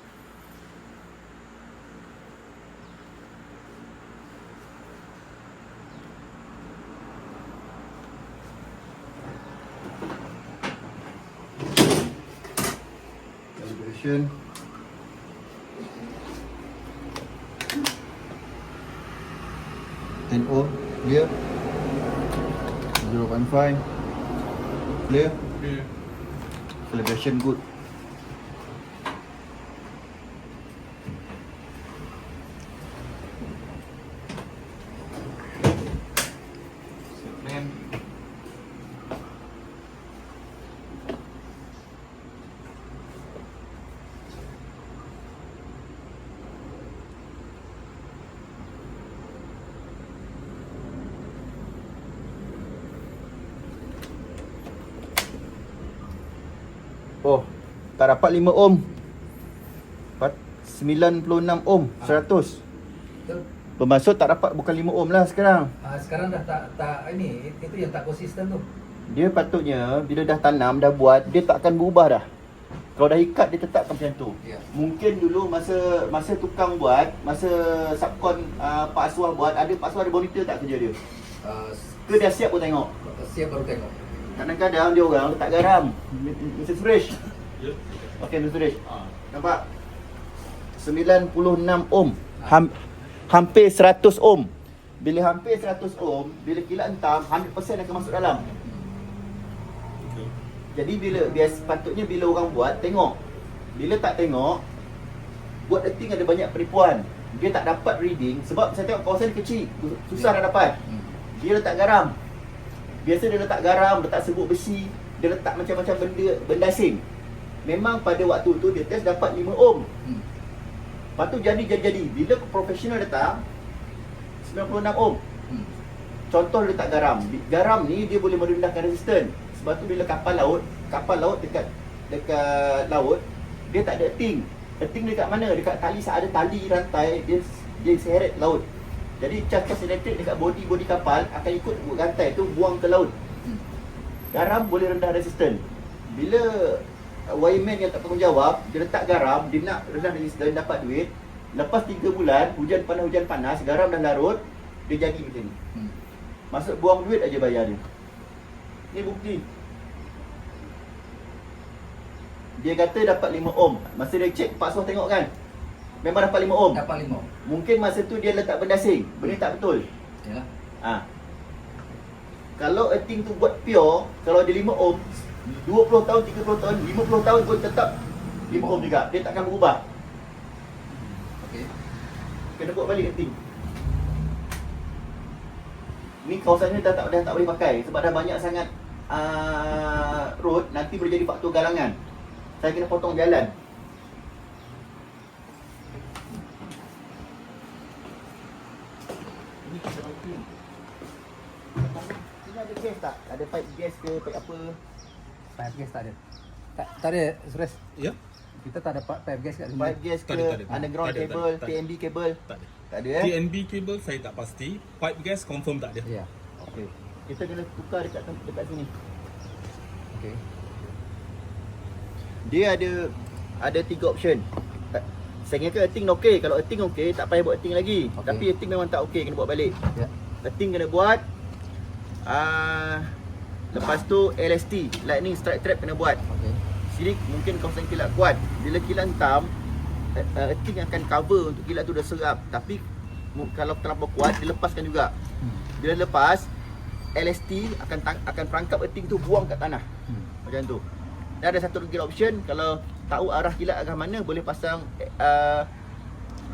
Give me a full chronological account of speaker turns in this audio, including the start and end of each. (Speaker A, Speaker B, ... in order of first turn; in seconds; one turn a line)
Speaker A: 13.6-14.4
Speaker A: 20.3-21.3
Speaker A: 23.0-23.9
Speaker A: 25.0-25.8
Speaker A: 26.9-27.6
Speaker A: 37.2-37.7
Speaker A: 57.2-58.9
Speaker A: 60.2-62.6
Speaker A: 63.8-65.7
Speaker B: 65.8-68.7
Speaker A: 69.1-72.2
Speaker A: 73.0-81.0
Speaker B: 74.4-74.7
Speaker B: 81.4-82.0
Speaker A: 82.1-82.9
Speaker B: 83.0-84.1
Speaker A: 84.3-87.2
Speaker C: 87.5-88.3
Speaker A: 88.2-88.8
Speaker C: 88.8-89.2
Speaker A: 89.3-89.6
Speaker A: 90.8-92.8
Speaker A: 93.3-98.5
Speaker C: 100.0-100.3
Speaker A: 100.7-103.2
Speaker A: 103.7-104.6
Speaker A: 105.7-110.8
Speaker B: 110.8-111.2
Speaker A: 111.3-112.1
Speaker A: 113.0-117.0
Speaker A: 117.6-119.9
Speaker B: 120.0-120.3
Speaker A: 121.2-123.4
Speaker A: 124.4-125.2
Speaker B: 125.5-125.8
Speaker A: 126.3-138.6
Speaker A: 139.2-143.1
Speaker A: 144.3-155.6
Speaker A: 156.5-157.8
Speaker A: 158.9-159.4
Speaker A: 162.6-165.3
Speaker A: 166.0-166.8
Speaker B: 166.7-167.3
Speaker A: 167.4-169.9
Speaker B: 170.2-170.5
Speaker A: 170.8-171.1
Speaker A: 172.6-177.9
Speaker A: 178.5-179.8
Speaker B: 178.5-178.9
Speaker B: 181.3-181.7
Speaker A: 182.6-183.4
Speaker A: 186.2-192.0
Speaker A: 192.6-193.5
Speaker C: 199.6-200.5
Speaker A: 201.7-204.8
Speaker B: 205.6-206.2
Speaker B: 206.8-207.8
Speaker B: 208.6-210.0
Speaker A: 209.8-212.4
Speaker C: 210.3-211.8
Speaker C: 212.5-216.1
Speaker A: 212.9-213.3
Speaker A: 216.6-218.9
Speaker B: 220.1-220.4
Speaker A: 222.4-229.8
Speaker B: 228.2-228.4
Speaker A: 230.4-231.2
Speaker A: 232.2-233.2
Speaker A: 233.7-236.2
Speaker B: 236.2-236.6
Speaker A: 236.9-239.5
Speaker A: 240.1-245.1
Speaker B: 245.4-245.7
Speaker A: 245.8-246.5
Speaker A: 247.1-249.8
Speaker B: 250.1-250.3
Speaker A: 250.4-250.8
Speaker A: 251.4-255.7